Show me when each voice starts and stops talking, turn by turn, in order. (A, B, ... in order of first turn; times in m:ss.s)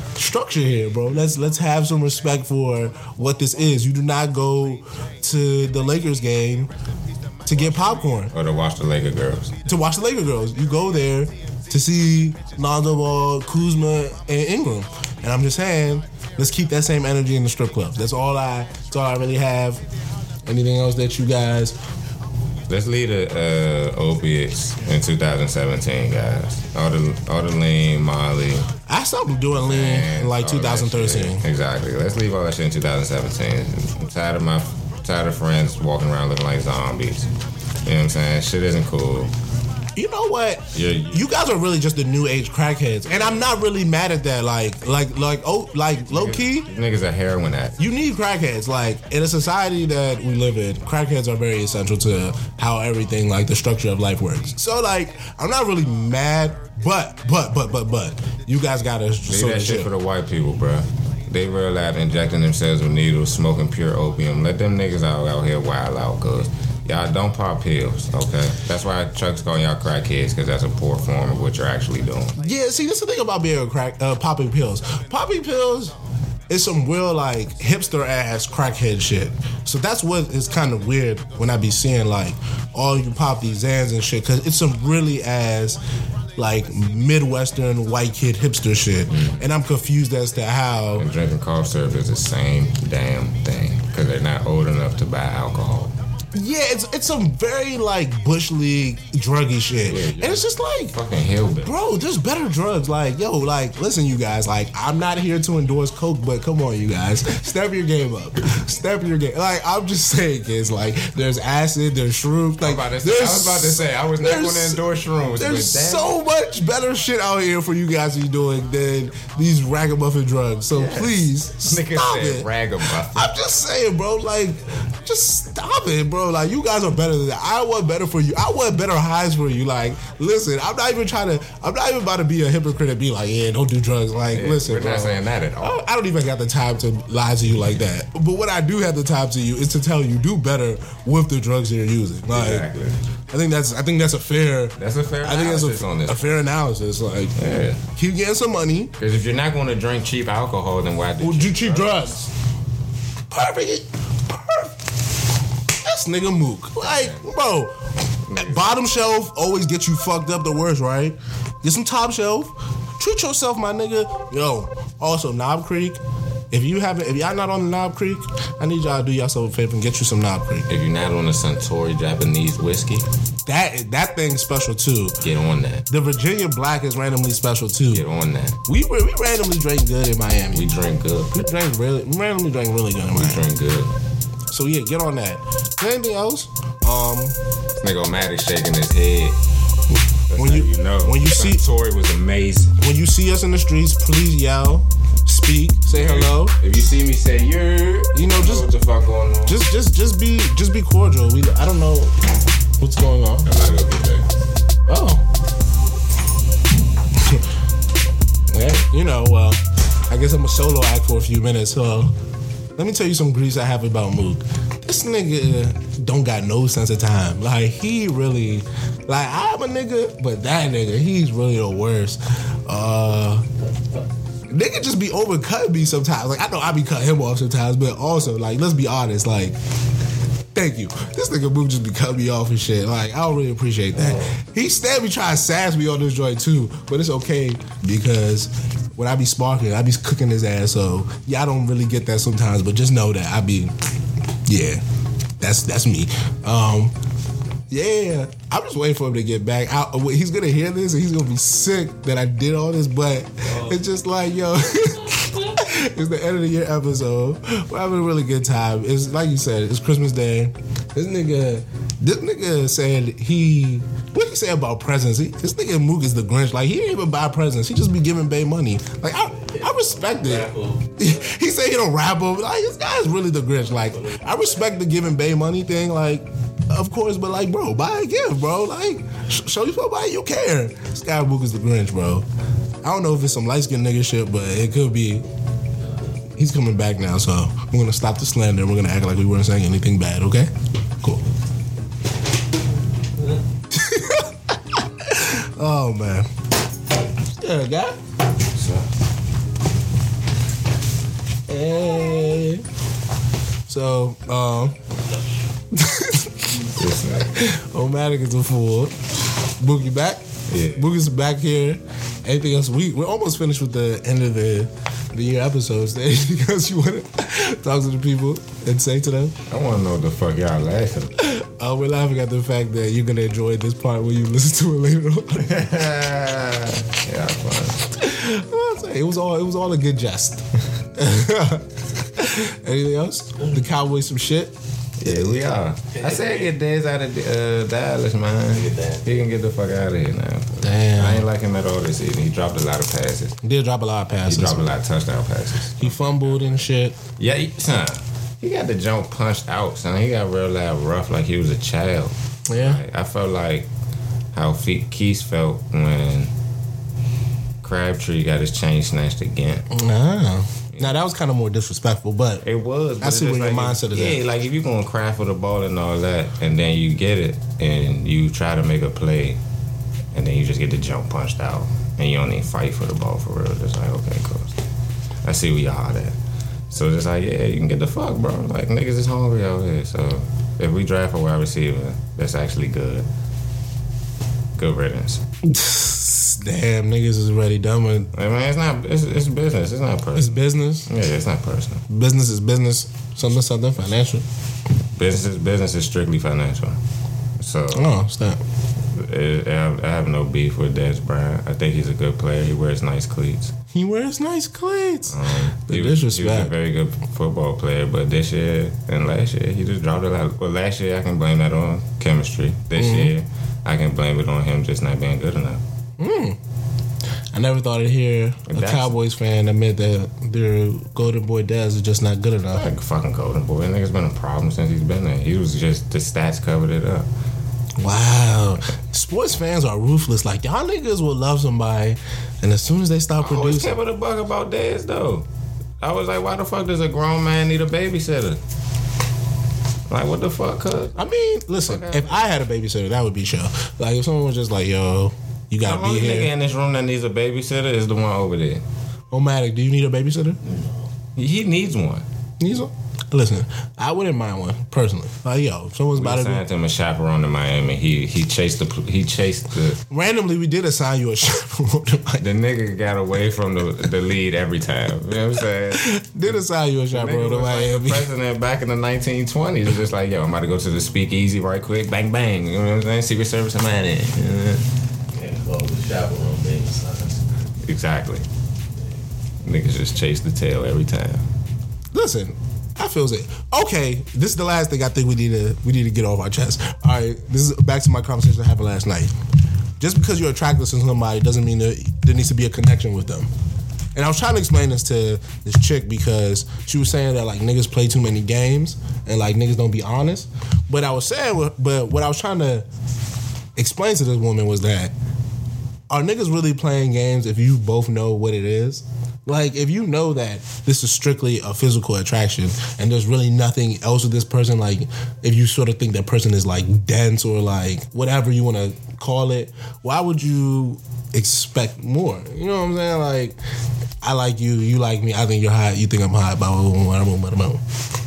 0:00.2-0:06.7 A
0:07.4-0:08.3 A
0:07.5-0:09.6 B
0:09.6-0:19.8 A
0:20.4-0:21.8 A
0:22.7-0:28.7 B
0:28.8-0:31.4 A
0:29.5-0:37.3 B
0:37.8-0:39.3 B
0:40.0-0:46.7 A
0:40.7-0:41.3 B
0:46.1-0:47.8 B
0:47.8-0:59.9 A
0:59.3-1:12.4 B
1:12.4-1:15.9 A
1:16.5-1:25.8 A
1:26.4-1:31.1 A
1:29.1-1:29.5 B
1:31.0-1:35.9 B
1:36.3-1:40.9 A
1:39.8-1:41.8 B
1:41.6-1:54.8 A
1:52.6-1:56.1 B
1:55.4-2:02.5 A
2:00.7-2:03.3 B
2:03.0-2:22.7 A
2:14.3-2:15.8 B
2:22.3-2:23.0 B
2:23.3-2:27.3 A
2:24.8-2:26.4 B
2:27.4-2:27.8 B
2:27.9-2:28.9 A
2:29.0-2:32.2 B
2:31.2-2:32.2 A
2:33.3-2:34.7 A
2:35.8-2:37.7 A
2:36.8-2:37.2 B
2:38.2-2:38.7 B
2:38.4-2:46.0 A
2:46.5-2:50.7 A
2:50.7-2:53.0 B
2:53.4-2:55.2 A
2:55.2-2:55.8 B
2:55.9-2:58.0 A
2:57.9-2:58.6 B
2:58.6-3:00.7 A
3:00.5-3:01.4 B
3:01.3-3:03.4 A
3:03.1-3:03.9 B
3:04.5-3:07.4 A
3:07.8-3:09.4 B
3:10.3-3:12.7 B
3:10.4-3:11.6 A
3:12.8-3:16.6 A
3:15.9-3:19.6 B
3:18.1-3:18.7 A
3:19.4-3:22.1 A
3:22.8-3:23.5 A
3:23.4-3:24.3 B
3:24.9-3:25.2 A
3:27.2-3:27.4 A
3:28.5-3:32.1 A
3:32.8-3:43.4 A
3:44.5-3:49.6 A
3:50.5-4:03.7 A
4:04.4-4:04.8 A
4:05.4-4:06.9 A
4:07.7-4:42.2 A
4:29.5-4:30.9 C
4:33.9-4:34.4 C
4:42.8-4:45.2 A
4:46.4-4:50.5 A
4:53.7-4:56.3 A
4:57.4-4:58.0 A
4:58.6-4:58.8 B
5:01.5-5:02.6 A
5:03.7-5:04.8 A
5:05.7-5:08.9 A
5:06.7-5:07.3 B
5:09.6-5:19.4 A
5:10.5-5:10.9 B
5:19.5-5:21.2 B
5:21.2-5:25.6 A
5:25.4-5:27.9 B
5:28.0-5:30.4 A
5:30.9-5:34.5 A
5:35.0-5:43.4 B
5:35.0-5:35.3 A
5:35.9-5:36.5 C
5:38.5-5:39.0 C
5:40.6-5:41.2 A
5:43.4-5:44.7 A
5:44.2-5:53.7 B
5:45.8-5:46.9 A
5:52.5-5:52.8 A
5:54.3-5:56.3 B
5:57.6-5:59.7 B
5:59.7-6:02.4 A
6:02.4-6:09.4 B
6:03.0-6:04.2 A
6:10.1-6:14.6 B
6:15.2-6:16.2 B
6:16.7-6:23.1 B
6:24.6-6:25.2 B
6:25.4-6:28.1 A
6:28.1-6:31.8 B
6:30.2-6:30.9 A
6:31.9-6:34.2 A
6:34.9-6:36.8 B
6:37.4-6:37.9 B
6:37.7-6:38.4 A
6:38.9-6:43.5 B
6:43.7-6:46.5 A
6:45.1-6:55.6 B
6:52.8-6:53.1 A
6:56.0-6:56.4 A
6:57.3-7:02.6 A
6:58.5-6:58.9 B
7:02.5-7:07.1 B
7:07.8-7:13.8 A
7:13.2-7:15.2 B
7:15.8-7:18.4 B
7:19.9-7:21.0 B
7:21.0-7:26.3 A
7:21.6-7:22.2 B
7:25.6-7:28.6 B
7:29.1-7:30.4 A
7:30.4-7:30.8 C
7:31.2-7:32.0 B
7:32.4-7:36.4 A
7:35.9-7:39.8 B
7:39.9-7:42.2 A
7:42.2-7:46.4 B
7:45.7-7:48.1 A
7:46.9-7:54.6 B
7:55.1-7:57.2 C
7:57.6-7:58.2 B
7:59.4-8:01.2 B
8:01.9-8:09.1 A
8:09.8-8:13.3 A
8:13.9-8:22.7 A
8:23.6-8:24.9 A
8:25.9-8:43.4 A
8:44.0-8:47.6 A